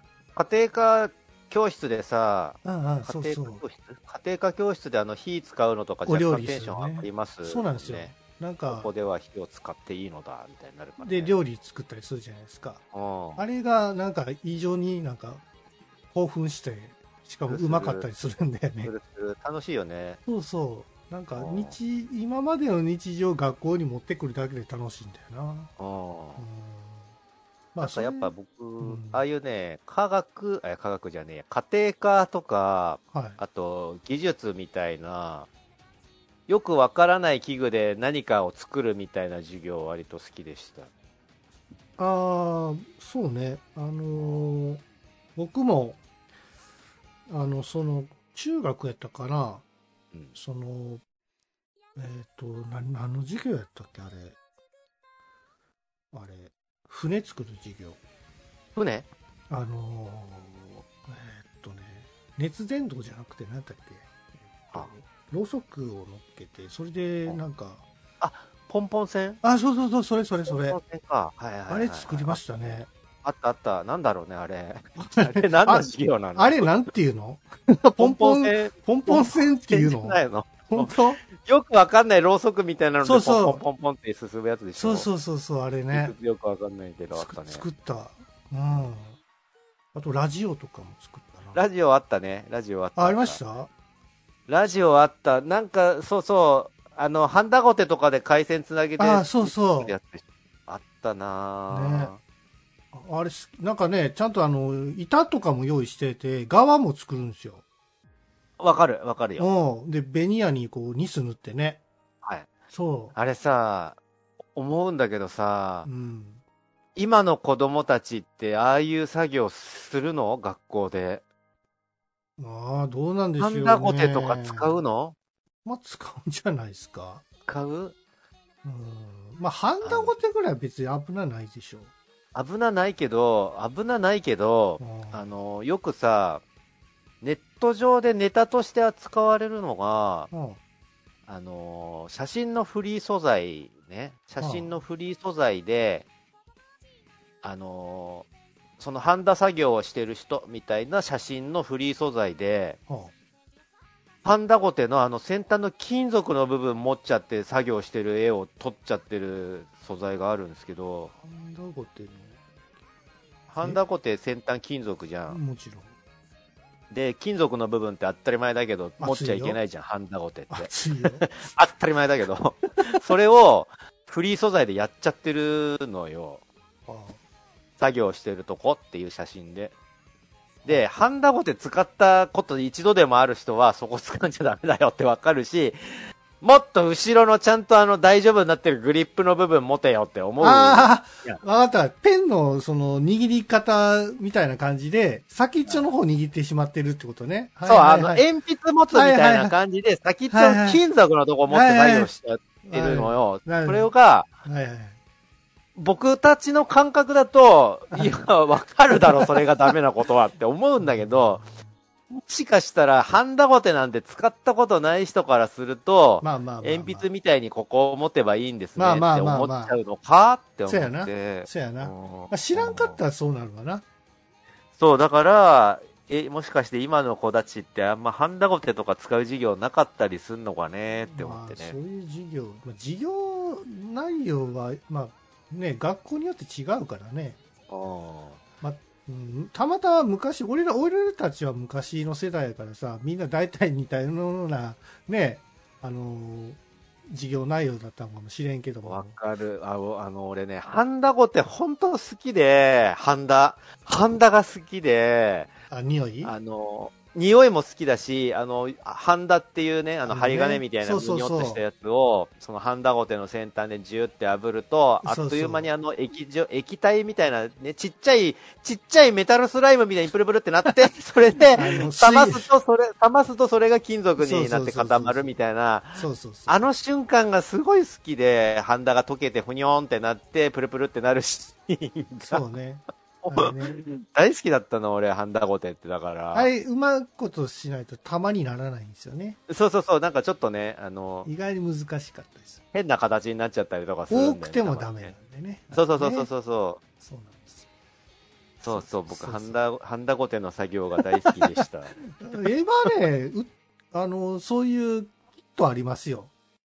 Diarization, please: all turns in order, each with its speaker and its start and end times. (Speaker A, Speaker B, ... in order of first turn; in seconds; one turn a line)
Speaker A: 0.3-8.1
Speaker B: 2.6-3.6
Speaker B: 6.0-8.9
Speaker A: 8.7-11.3
Speaker B: 11.0-12.8
Speaker A: 12.9-13.4
Speaker B: 13.4-15.4
Speaker B: 16.1-18.9
Speaker A: 17.5-18.1
Speaker A: 18.8-20.2
Speaker B: 20.3-25.7
Speaker A: 21.4-21.8
Speaker A: 25.8-26.4
Speaker B: 26.4-27.0
Speaker B: 27.8-29.2
Speaker A: 27.8-35.5
Speaker B: 33.1-33.4
Speaker A: 36.5-40.9
Speaker B: 42.0-44.8
Speaker A: 44.2-44.5
Speaker B: 45.4-46.0
Speaker B: 47.3-49.6
Speaker B: 50.3-51.0
Speaker B: 52.0-54.4
Speaker B: 56.1-58.0
Speaker A: 58.8-59.1
Speaker B: 59.5-67.8
Speaker A: 68.2-69.4
Speaker B: 69.4-70.8
Speaker A: 70.5-76.9
Speaker B: 71.7-72.9
Speaker B: 75.0-81.2
Speaker A: 78.0-85.1
Speaker B: 83.0-83.6
Speaker B: 84.8-86.1
Speaker A: 85.9-87.6
Speaker B: 87.1-89.2
Speaker B: 89.9-91.6
Speaker A: 91.5-93.4
Speaker B: 93.0-93.7
Speaker A: 94.5-102.2
Speaker B: 99.0-99.9
Speaker B: 101.7-102.1
Speaker B: 102.9-107.6
Speaker A: 108.6-109.5
Speaker B: 109.4-111.8
Speaker A: 112.2-112.5
Speaker B: 112.7-113.1
Speaker A: 113.1-114.0
Speaker A: 114.5-115.9
Speaker B: 115.8-116.4
Speaker A: 117.0-121.2
Speaker B: 122.4-124.8
Speaker A: 123.4-125.2
Speaker B: 125.6-127.2
Speaker A: 127.5-128.0
Speaker B: 128.6-131.9
Speaker A: 129.8-130.2
Speaker A: 132.3-136.4
Speaker B: 134.8-135.3
Speaker A: 137.2-140.3
Speaker B: 140.3-140.6
Speaker A: 141.3-146.1
Speaker B: 144.4-144.7
Speaker A: 147.4-148.3
Speaker A: 148.8-152.8
Speaker A: 154.2-161.1
Speaker B: 161.2-162.4
Speaker A: 163.5-165.4
Speaker B: 165.3-165.9
Speaker A: 166.9-176.4
Speaker B: 169.0-169.6
Speaker B: 170.5-171.3
Speaker B: 176.9-177.2
Speaker A: 177.8-179.7
Speaker A: 180.6-185.8
Speaker A: 186.4-191.4
Speaker B: 190.4-198.2
Speaker A: 197.6-204.3
Speaker B: 198.9-199.5
Speaker B: 200.3-200.8
Speaker B: 201.5-202.1
Speaker B: 202.6-203.9
Speaker B: 204.4-204.9
Speaker A: 205.8-211.4
Speaker B: 209.0-209.4
Speaker B: 210.8-211.7
Speaker A: 212.1-223.0
Speaker B: 216.2-217.1
Speaker B: 218.8-219.8
Speaker B: 220.7-223.8
Speaker A: 224.8-231.8
Speaker B: 231.1-237.4
Speaker A: 237.7-238.4
Speaker B: 238.6-249.2
Speaker A: 248.8-255.5
Speaker B: 255.7-256.3
Speaker A: 256.2-282.4
Speaker B: 260.1-261.6
Speaker B: 265.0-265.7
Speaker B: 271.5-272.5
Speaker B: 274.2-275.4
Speaker B: 275.9-276.6
Speaker B: 282.2-283.8
Speaker A: 283.2-286.5
Speaker B: 286.3-289.4
Speaker A: 289.5-291.3
Speaker B: 291.2-292.6
Speaker A: 292.7-295.1
Speaker B: 294.1-296.3
Speaker A: 295.7-296.8
Speaker B: 297.0-297.6
Speaker A: 298.6-302.4
Speaker B: 298.6-299.6
Speaker B: 302.1-306.3